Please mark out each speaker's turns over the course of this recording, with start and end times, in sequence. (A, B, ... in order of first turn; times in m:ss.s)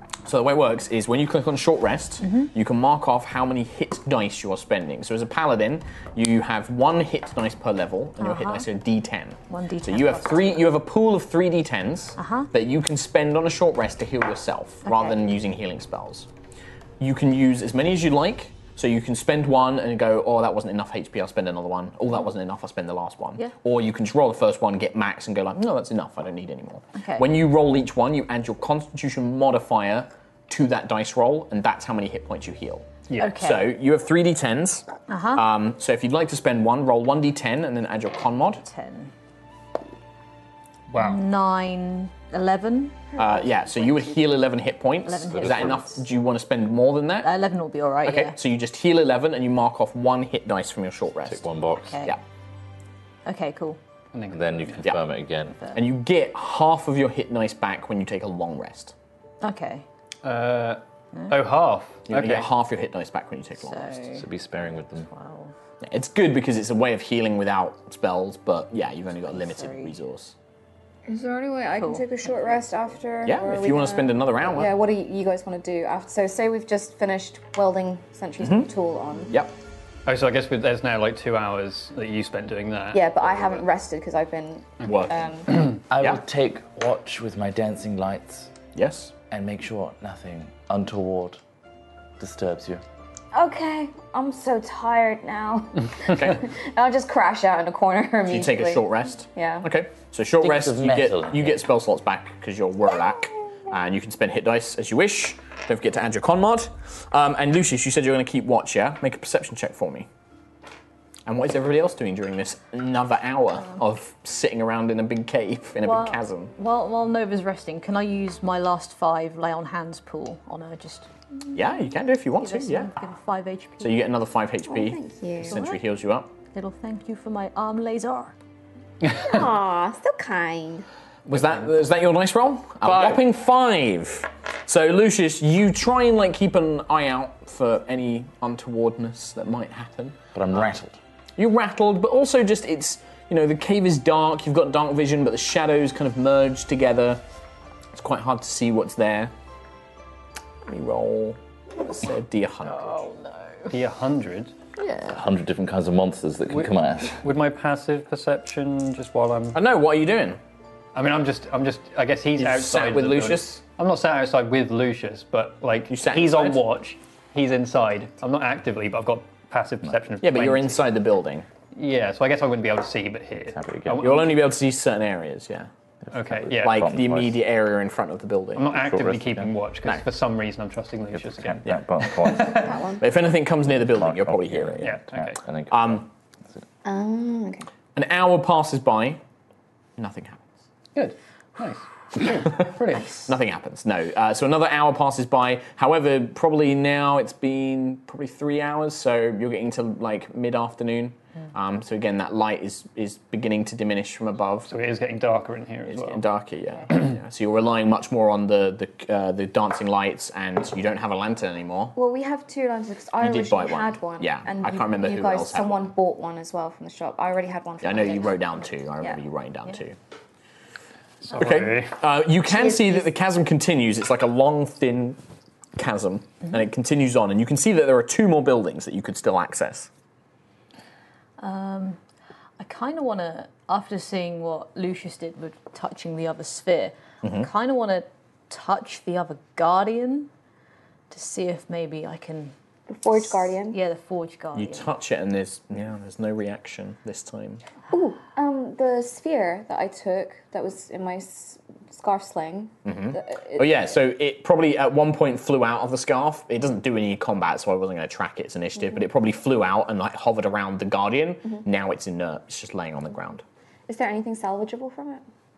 0:00.2-0:16.3 A
0:08.2-0:08.7 B
0:09.5-0:10.6 B
0:12.2-0:12.5 B
0:14.8-0:15.2 B
0:17.0-0:38.6 A
0:27.0-0:27.3 B
0:33.1-0:33.4 C
0:33.2-0:33.7 B
0:35.1-0:35.5 B
0:38.6-0:39.1 B
0:40.9-0:41.2 C
0:40.9-0:43.1 B
0:43.2-0:47.3 A
0:45.0-0:46.0 B
0:45.3-0:45.9 D
0:47.2-0:48.4 B
0:48.0-0:51.4 A
0:51.3-0:52.1 D
0:51.8-0:52.2 B
0:53.3-0:53.8 B
0:54.1-0:54.9 C
0:54.3-0:55.6 D
0:55.7-0:58.9 A
0:59.4-0:59.8 B
1:00.2-1:02.5 C
1:02.1-1:03.9 A
1:03.6-1:04.3 B
1:04.2-1:05.1 D
1:05.0-1:05.5 B
1:05.8-1:10.3 A
1:09.3-1:10.0 B
1:11.1-1:19.4 E
1:11.8-1:12.8 B
1:13.2-1:14.7 A
1:18.4-1:18.7 A
1:20.1-1:23.0 C
1:22.9-1:25.7 E
1:24.8-1:26.2 A
1:25.9-1:28.5 D
1:28.8-1:29.1 A
1:29.3-1:31.4 D
1:32.2-1:32.8 D
1:33.3-1:38.8 E
1:36.1-1:36.4 A
1:38.3-1:50.1 A
1:39.4-1:39.7 E
1:40.4-1:41.7 D
1:51.3-1:56.5 A
1:55.8-2:01.1 B
2:01.5-2:02.9 A
2:02.4-2:04.0 B
2:03.8-2:06.3 A
2:04.7-2:05.6 E
2:05.5-2:05.8 B
2:06.5-2:08.4 B
2:09.0-2:09.4 C
2:09.1-2:10.9 E
2:11.3-2:11.7 C
2:11.3-2:20.6 A
2:12.8-2:13.2 C
2:20.3-2:21.0 D
2:21.4-2:27.2 A
2:28.0-2:29.3 A
2:30.7-2:33.0 A
2:32.6-2:33.8 B
2:33.7-2:34.6 C
2:34.8-2:35.1 B
2:35.0-2:37.2 D
2:36.5-2:39.6 C
2:39.6-2:40.4 A
2:41.0-2:50.8 C
2:42.4-2:43.6 A
2:45.9-2:46.6 A
2:50.2-2:51.5 A
2:51.7-2:54.4 C
2:53.5-2:54.1 D
2:54.0-2:55.7 A
2:56.1-2:57.4 D
2:56.1-2:56.9 C
2:56.5-2:58.7 A
2:58.6-3:02.7 C
2:58.7-2:59.5 D
3:01.1-3:02.7 D
3:02.5-3:03.0 E
3:03.0-3:04.9 A
3:03.8-3:06.6 D
3:04.8-3:05.4 C
3:05.7-3:06.1 A
3:06.8-3:07.7 E
3:08.0-3:09.2 A
3:10.0-3:10.4 A
3:11.0-3:13.4 C
3:13.3-3:24.7 A
3:24.7-3:26.2 C
3:25.9-3:32.0 A
3:32.0-3:38.4 E
3:33.2-3:35.9 A
3:37.8-3:40.0 A
3:41.2-3:42.0 C
3:41.3-3:45.2 A
3:42.5-3:43.1 E
3:45.8-3:49.9 A
3:51.4-3:52.0 B
3:52.6-4:00.3 B
3:57.2-3:57.5 A
4:01.1-4:02.5 B
4:02.9-4:03.8 E
4:03.1-4:04.9 B
4:04.6-4:07.6 A
4:07.9-4:13.9 E
4:12.9-4:23.4 A
4:23.9-4:25.2 E